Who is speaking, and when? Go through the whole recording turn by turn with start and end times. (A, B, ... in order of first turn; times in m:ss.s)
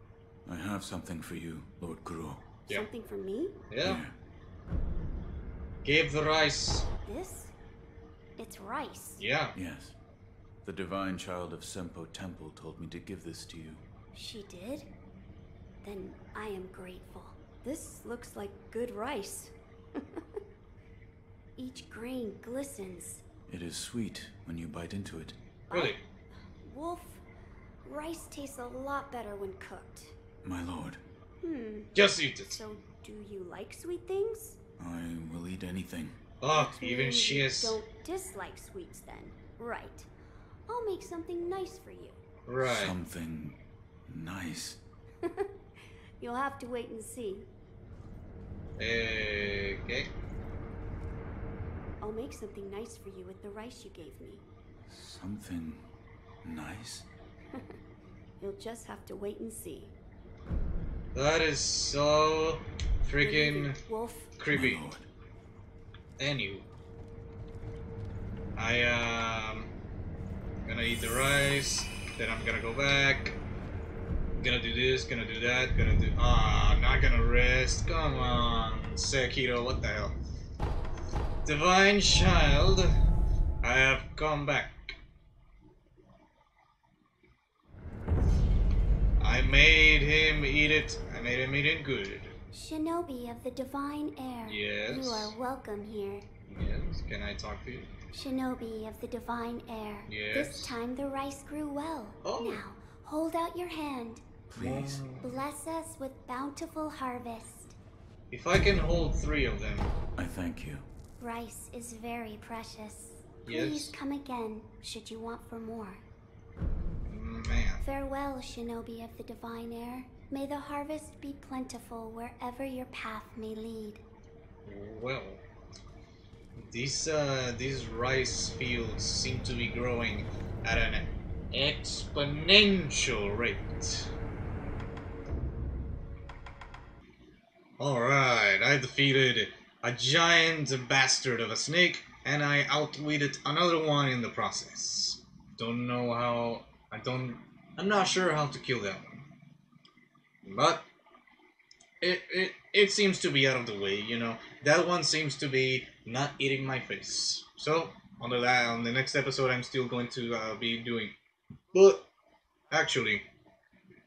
0:00.5-0:02.5 A
0:02.7-0:03.6 B
0:03.7-0:04.0 C
0:03.8-0:04.2 A
0:05.8-0:06.9 C
0:07.1-0:07.5 B
0:08.4-0:09.2 B
0:09.2-0:09.5 C
0:09.6-0:10.0 A
0:10.6-0:13.8 A
0:14.1-0:14.9 B
0:15.8-0:20.4 B
0:21.6-0:23.2 B
0:23.5-0:25.4 A
0:25.7-0:26.0 B
0:25.7-0:26.0 C
0:26.6-0:27.2 B
0:27.8-0:30.2 B
0:30.4-0:31.0 A
0:31.4-0:34.6 B
0:31.9-0:32.6 C
0:34.8-0:36.2 A
0:36.4-0:37.8 C
0:36.5-0:40.1 B
0:40.7-0:42.2 B
0:42.5-0:43.0 C
0:42.6-0:44.8 A
0:45.2-0:45.5 B
0:46.2-0:47.5 B
0:48.8-0:50.1 C
0:52.0-0:54.4 B
0:54.9-0:55.9 A
0:56.4-0:57.1 A
0:58.4-0:59.9 B
1:01.2-1:03.8 C
1:03.2-1:04.3 B
1:04.4-1:04.8 C
1:04.5-1:05.1 A
1:06.2-1:06.7 C
1:08.6-1:09.7 C
1:10.6-1:13.4 C
1:14.4-1:20.2 C
1:21.4-1:23.0 C
1:23.6-1:25.0 C
1:29.2-1:32.4 C
1:32.5-1:36.3 B
1:34.4-1:35.3 C
1:36.5-1:37.9 C
1:38.1-1:44.3 B
1:40.1-1:40.8 C
1:42.2-1:42.6 C
1:44.5-1:45.4 C
1:44.6-1:45.0 A
1:45.2-1:47.8 B
1:48.3-1:50.0 C
1:50.2-1:50.9 A
1:51.2-1:56.0 B
1:53.5-1:54.0 C
1:57.1-1:57.8 C
1:57.8-2:04.0 B
2:04.7-2:05.4 C
2:06.6-2:14.1 C
2:17.8-2:29.3 C
2:30.4-2:30.8 C
2:32.0-2:41.1 C
2:41.7-2:42.1 C
2:42.7-2:43.2 C